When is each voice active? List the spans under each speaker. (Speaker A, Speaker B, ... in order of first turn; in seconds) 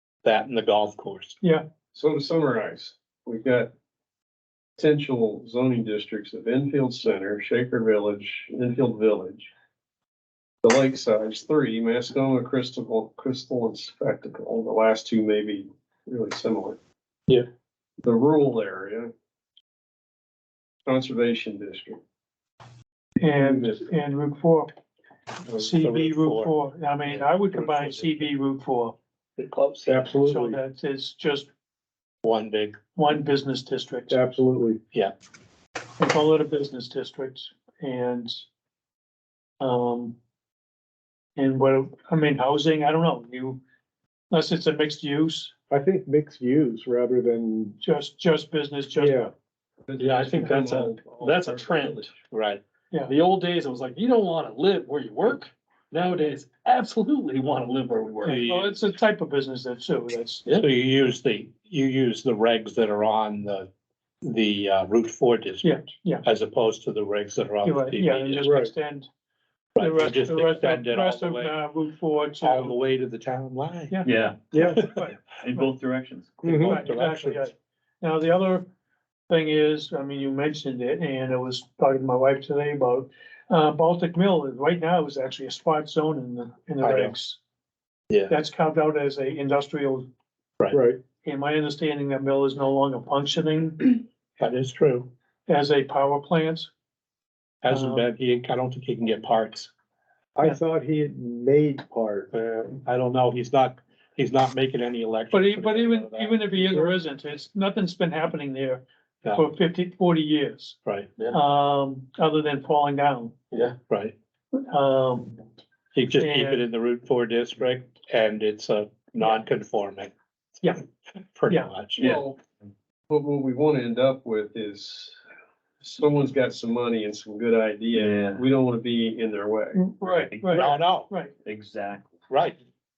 Speaker A: 0.2-1.4, 25.4-26.5, 27.1-28.3, 29.4-30.1, 32.2-32.8, 52.3-52.6, 58.2-58.8, 60.5-63.7, 64.2-68.6, 69.7-71.5, 72.4-74.0, 76.4-77.5, 86.8-87.1, 94.4-95.1, 97.6-99.7, 102.3-106.7, 110.8-111.1, 113.9-114.1, 115.9-120.1, 121.3-122.1, 130.5-131.1, 132.3-132.6
Speaker B: 1.9-3.7, 4.8-9.5, 10.6-16.8, 18.0-19.1, 20.8-22.0, 23.3-23.8, 49.9-52.2, 122.0-122.4, 123.1-125.2, 125.8-129.8
Speaker C: 23.2-24.7, 25.5-28.9, 30.2-31.5, 32.9-34.2, 36.0-38.4, 39.6-40.1, 41.4-43.6, 44.3-45.5, 47.8-49.3, 58.2-60.5, 65.6-66.2, 67.6-69.1, 69.8-72.8, 74.8-75.7, 76.6-78.7, 79.3-87.4, 88.3-90.1, 91.2-94.0, 95.5-96.7, 97.7-98.0, 105.3-113.3, 114.5-115.4, 116.1-116.7, 129.7-131.3
Speaker D: 29.9-30.6, 34.1-34.8, 45.7-47.8, 49.0-49.3, 68.5-68.7, 74.5-74.9, 76.4-76.8, 90.7-91.0, 100.3-102.3
Speaker E: 50.0-52.1, 53.1-58.5, 113.5-113.8
Speaker F: 74.0-76.5, 127.9-128.4, 130.3-132.1